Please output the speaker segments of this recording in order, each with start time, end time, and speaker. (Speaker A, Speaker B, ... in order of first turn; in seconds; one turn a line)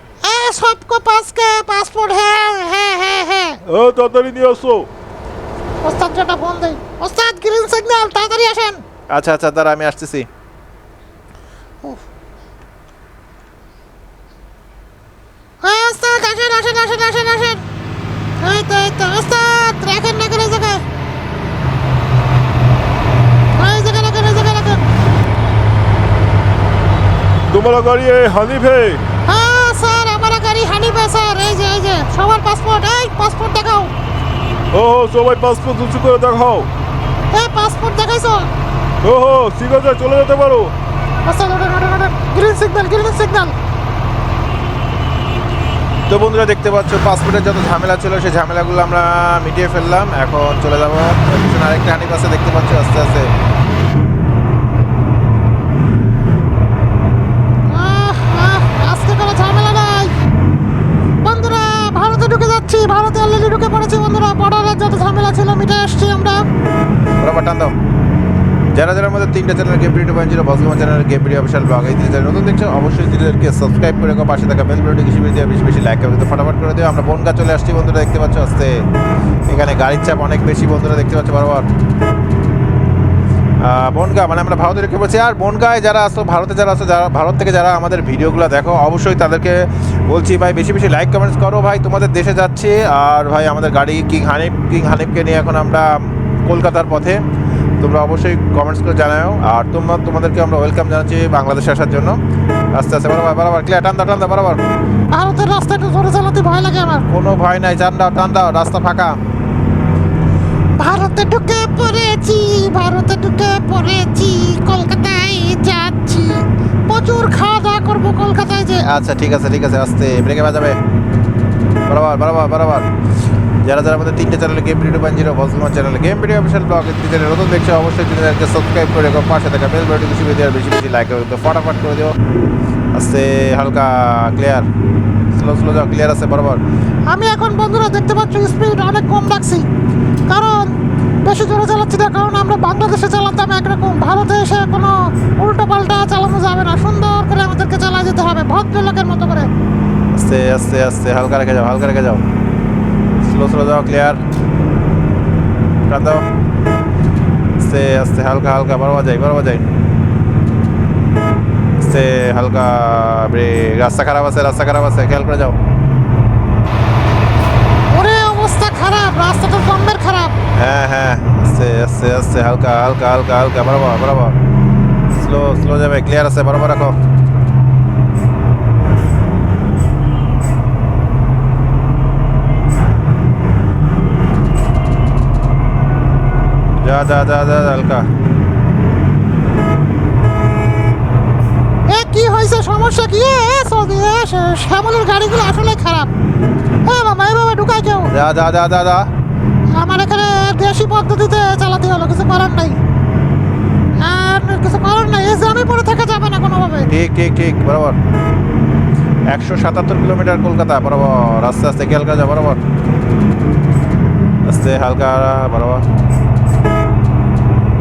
Speaker A: 0.2-3.6
Speaker B: 3.6-4.9
Speaker A: 5.8-8.8
Speaker C: 9.1-10.3
Speaker A: 15.6-17.6
Speaker A: 18.4-20.8
Speaker A: 23.6-24.8
Speaker B: 27.5-29.0
Speaker A: 29.2-33.9
Speaker B: 34.7-36.7
Speaker A: 37.3-38.5
Speaker B: 39.0-40.7
Speaker A: 41.2-43.5
Speaker C: 46.1-53.3
Speaker A: 57.7-60.1
Speaker A: 61.2-66.5
Speaker C: 67.2-67.7
Speaker C: 68.7-78.8
Speaker C: 79.5-81.7
Speaker C: 83.6-97.2
Speaker C: 97.8-102.2
Speaker C: 102.7-104.6
Speaker A: 105.1-107.1
Speaker C: 107.1-109.2
Speaker A: 110.8-118.8
Speaker C: 118.8-120.8
Speaker C: 121.9-122.9
Speaker C: 123.6-132.2
Speaker C: 132.9-134.7
Speaker C: 135.3-136.6
Speaker A: 137.1-139.7
Speaker A: 140.3-149.5
Speaker C: 150.1-152.2
Speaker C: 153.2-154.2
Speaker C: 155.9-156.2
Speaker C: 157.6-159.7
Speaker C: 161.8-165.6
Speaker A: 167.9-170.3
Speaker C: 170.6-174.4
Speaker C: 175.1-176.9
Speaker C: 186.8-188.1
Speaker A: 191.9-196.1
Speaker A: 196.8-198.1
Speaker C: 198.1-199.1
Speaker A: 199.7-202.8
Speaker A: 204.0-206.9
Speaker C: 206.9-208.0
Speaker C: 209.3-212.6
Speaker C: 214.4-215.8